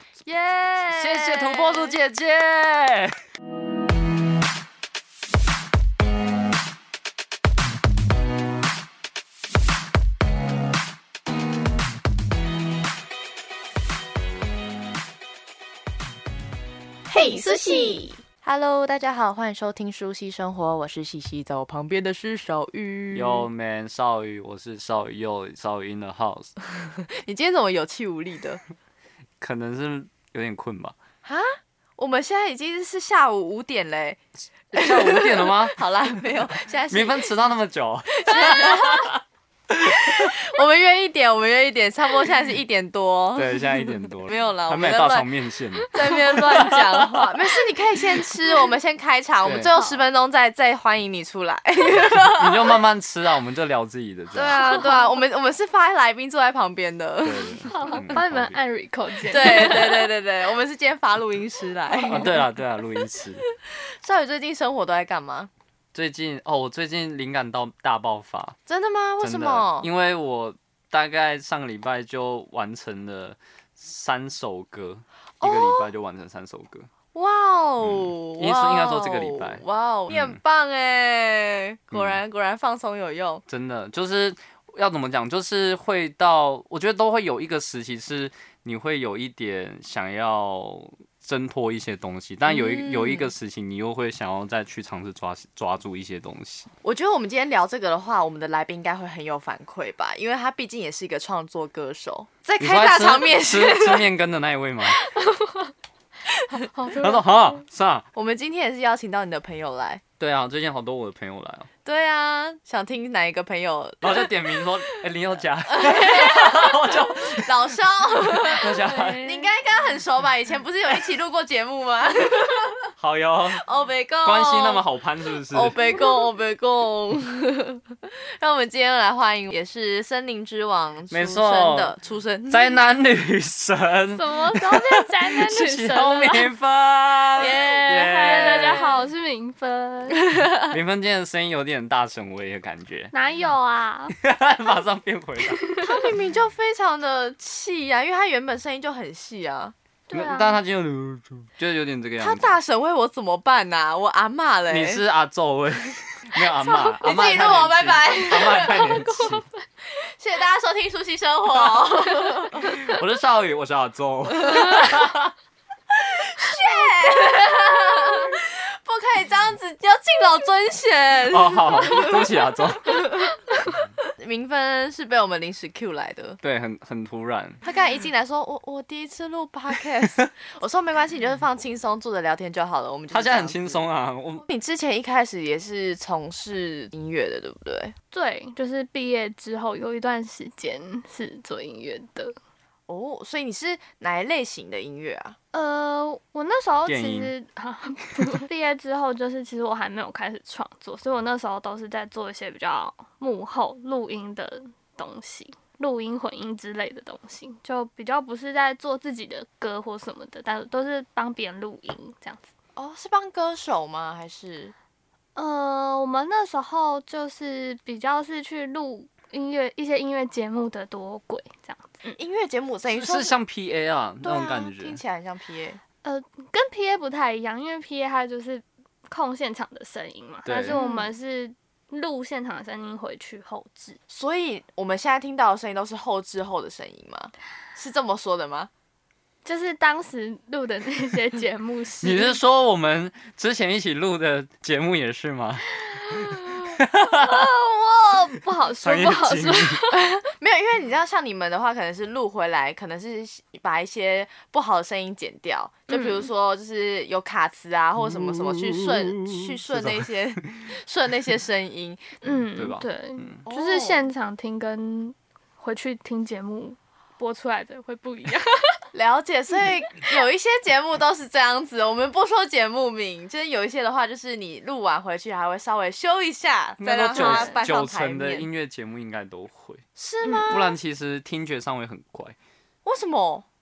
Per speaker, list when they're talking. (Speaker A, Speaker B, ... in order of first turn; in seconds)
Speaker A: 0.2-2.0, 17.1-23.5, 26.8-28.6, 31.2-37.3, 38.2-39.1, 39.8-45.3, 45.9-52.8, 54.3-58.2, 59.3-62.5, 63.5-65.5, 68.7-69.9, 75.4-75.9, 77.1-83.4, 92.5-93.3, 96.8-104.1, 108.2-110.0, 111.8-114.7, 115.7-122.9, 123.5-124.8, 125.5-132.8, 137.4-139.1, 140.2-140.8, 145.8-149.7, 152.2-155.0, 157.0-158.9, 159.8-162.9, 164.4-164.8, 165.9-176.4, 177.6-183.8, 184.5-187.9, 192.9-195.4, 212.8-214.7, 222.2-223.3, 224.2-225.8, 230.7-231.1, 234.1-238.7, 249.9-262.1, 263.4-264.1, 268.9-278.5, 280.0-280.8, 282.9-283.4
Speaker B: 0.9-3.2, 23.1-26.5, 29.4-31.0, 34.7-35.8, 36.9-40.4, 43.3-47.3, 49.4-49.9, 52.2-54.7, 57.2-58.6, 62.0-63.5, 65.9-68.6, 69.2-76.9, 77.8-80.4, 81.9-82.2, 83.5-96.7, 102.6-105.0, 107.0-108.0, 110.2-111.7, 114.0-119.3, 123.0-123.6, 124.2-125.8, 131.1-131.9, 132.5-138.9, 140.6-143.1, 144.2-145.8, 150.1-152.6, 154.7-159.4, 162.6-165.3, 171.3-173.2, 176.4-177.6, 183.1-184.5, 196.9-197.3, 222.9-225.0, 230.5-230.8, 242.0-247.5, 248.8-249.8, 258.1-260.7, 262.3-263.4, 276.8-279.8, 280.5-282.4
Speaker C: 54.5-55.0, 57.6-60.1, 62.0-62.4, 105.0-105.7, 106.7-107.3, 118.9-119.5, 134.1-136.5, 137.4-140.2, 143.1-144.2, 145.5-146.0, 150.1-150.6, 156.6-157.0, 158.4-159.6, 188.1-192.4, 195.5-212.5, 215.4-222.2, 226.0-234.0, 239.4-242.4, 246.0-250.0, 255.9-256.3, 262.2-268.8, 277.1-277.6, 280.2-280.6